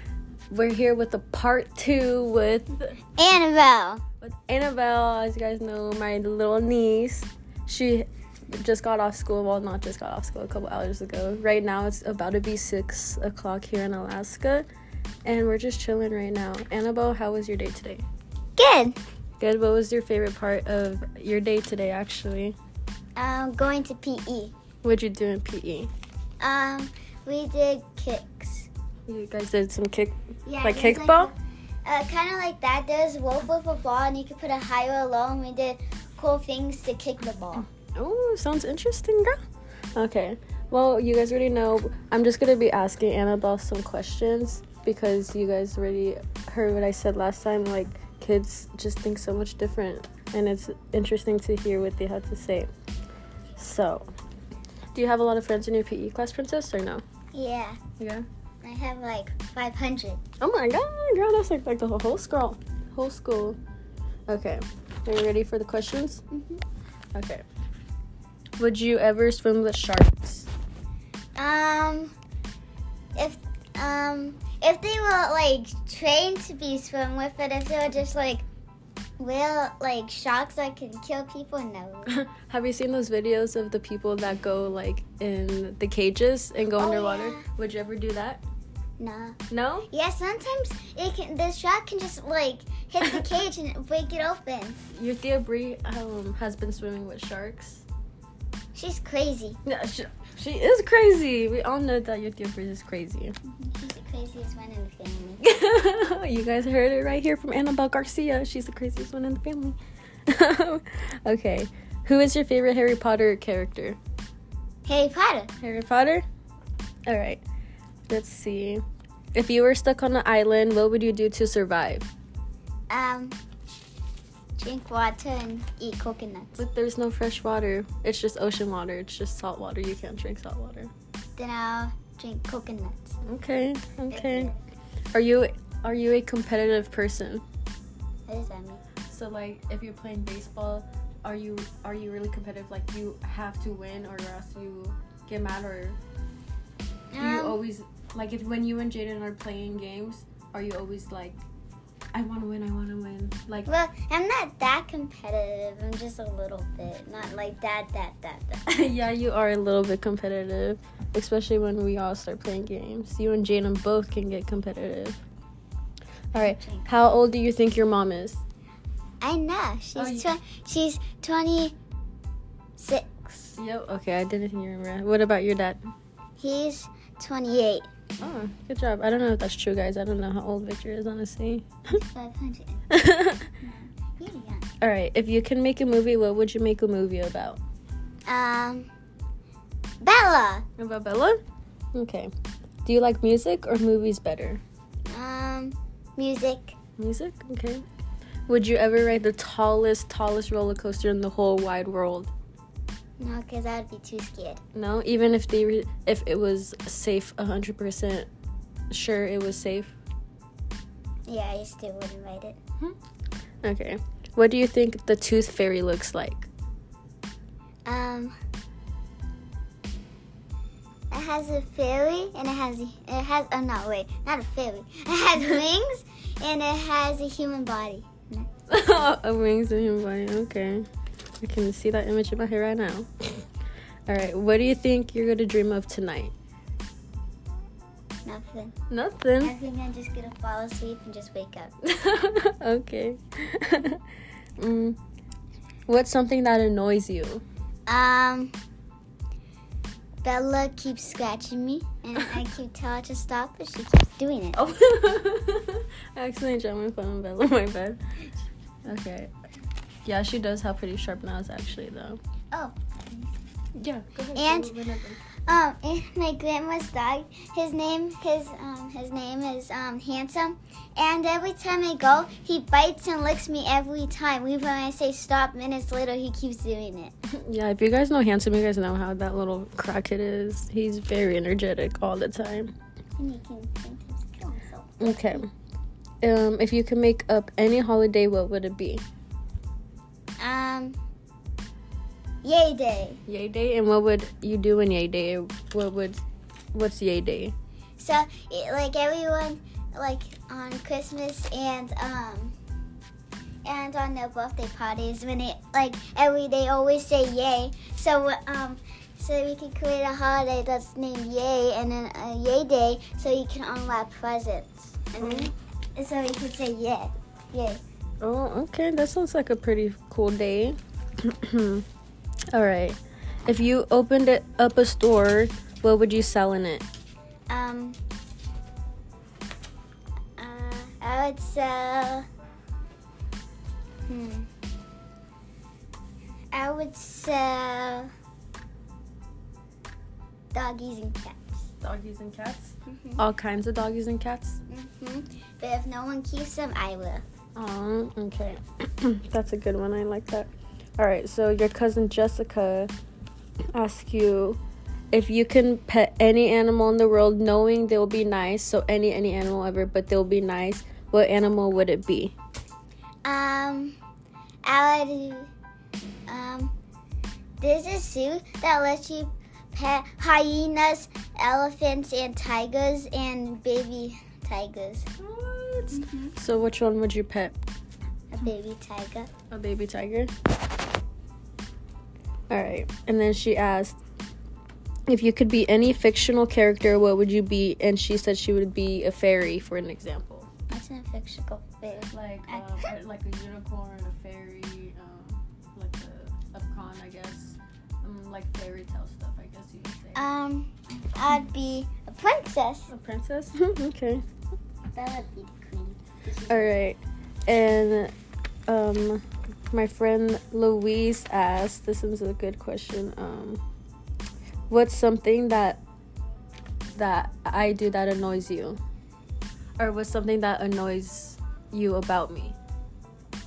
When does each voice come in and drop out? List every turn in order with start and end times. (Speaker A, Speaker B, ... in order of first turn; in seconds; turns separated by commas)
Speaker A: 0.5-3.0, Speaker B: 3.2-4.0, Speaker A: 4.2-14.7, Speaker A: 15.2-18.1, Speaker B: 18.6-19.0, Speaker A: 19.4-22.6, Speaker B: 23.1-24.5, Speaker A: 24.8-25.9, Speaker B: 26.4-28.7, Speaker A: 29.1-31.3, Speaker B: 30.5-37.7, Speaker A: 37.8-39.4, Speaker A: 40.0-52.7, Speaker A: 53.6-54.1, Speaker A: 54.9-57.0, Speaker B: 57.3-57.8, Speaker A: 58.0-58.2, Speaker B: 58.6-60.2, Speaker A: 60.4-63.6, Speaker A: 64.3-66.2, Speaker B: 66.3-66.6, Speaker A: 67.1-67.4, Speaker A: 68.6-70.5, Speaker B: 71.4-72.1, Speaker B: 73.2-78.5, Speaker B: 79.2-82.1, Speaker A: 82.1-88.4, Speaker B: 86.8-87.5, Speaker B: 89.0-89.4, Speaker A: 89.5-89.9, Speaker B: 89.9-94.8, Speaker A: 94.9-97.9, Speaker B: 98.8-99.6, Speaker A: 99.7-103.4, Speaker B: 103.4-105.4, Speaker A: 105.4-114.0, Speaker B: 114.8-115.5, Speaker A: 115.6-116.2, Speaker A: 117.1-117.4, Speaker A: 118.1-118.8, Speaker A: 119.3-122.1, Speaker B: 122.9-123.4, Speaker B: 124.6-126.6, Speaker A: 126.6-130.9, Speaker B: 131.4-133.2, Speaker A: 133.2-134.5, Speaker B: 134.1-134.6, Speaker A: 135.1-137.4, Speaker B: 138.3-138.8, Speaker A: 139.1-146.0, Speaker B: 147.1-147.6, Speaker A: 147.2-151.4, Speaker A: 152.1-153.7, Speaker B: 153.7-158.7, Speaker A: 158.7-165.2, Speaker A: 166.3-168.4, Speaker B: 166.3-166.9, Speaker B: 169.2-171.8, Speaker A: 170.0-170.3, Speaker B: 172.8-173.6, Speaker A: 173.6-175.9, Speaker B: 176.4-177.9, Speaker A: 178.2-181.9, Speaker B: 181.9-182.9, Speaker A: 182.9-183.4, Speaker B: 183.6-184.7, Speaker A: 184.8-187.6, Speaker B: 188.3-188.9, Speaker B: 190.0-190.7, Speaker A: 190.8-191.4, Speaker A: 191.9-192.3, Speaker A: 192.8-194.6, Speaker B: 195.1-196.8, Speaker A: 197.0-197.8, Speaker A: 198.5-202.3, Speaker B: 203.2-204.6, Speaker A: 204.7-208.3, Speaker A: 208.9-210.0, Speaker B: 211.3-212.6, Speaker A: 213.6-216.5, Speaker B: 217.9-218.3, Speaker B: 221.1-228.5, Speaker A: 228.7-230.9, Speaker A: 231.4-233.4, Speaker A: 234.1-236.3, Speaker B: 238.2-238.8, Speaker A: 238.9-239.6, Speaker B: 239.4-241.8, Speaker A: 241.8-244.0, Speaker A: 244.6-245.0, Speaker A: 245.9-247.4, Speaker B: 247.9-248.5, Speaker B: 250.2-254.6, Speaker A: 254.6-259.3, Speaker A: 260.1-262.2, Speaker B: 262.5-263.4, Speaker A: 263.8-265.2, Speaker B: 264.4-264.7, Speaker B: 265.5-277.1, Speaker A: 277.3-282.7, Speaker B: 283.2-285.4, Speaker A: 285.0-285.5, Speaker A: 286.2-289.0, Speaker B: 290.4-291.0, Speaker B: 292.4-293.2, Speaker A: 293.3-296.2, Speaker A: 296.7-297.6, Speaker B: 298.0-302.6, Speaker B: 303.6-317.8, Speaker A: 315.2-315.5, Speaker A: 318.2-321.9, Speaker A: 322.5-326.9, Speaker B: 327.5-328.0, Speaker B: 330.4-332.3, Speaker B: 334.1-334.5, Speaker B: 336.5-338.1, Speaker B: 340.5-341.7, Speaker A: 341.8-344.6, Speaker B: 342.9-343.2, Speaker B: 344.7-347.2, Speaker A: 347.6-352.9, Speaker A: 353.7-354.6, Speaker A: 355.1-362.4, Speaker B: 363.2-364.0, Speaker B: 364.6-365.5, Speaker B: 366.3-366.7, Speaker B: 367.6-375.1, Speaker A: 375.2-377.6, Speaker B: 375.9-376.3, Speaker B: 378.3-379.3, Speaker A: 379.5-380.3, Speaker A: 382.5-384.0, Speaker A: 385.1-390.5, Speaker B: 390.7-392.9, Speaker A: 392.0-400.3, Speaker B: 400.1-402.9, Speaker A: 402.9-404.2, Speaker B: 404.9-406.8, Speaker A: 406.5-408.1, Speaker A: 408.7-413.6, Speaker A: 414.7-415.8, Speaker A: 416.9-418.8, Speaker A: 419.8-422.6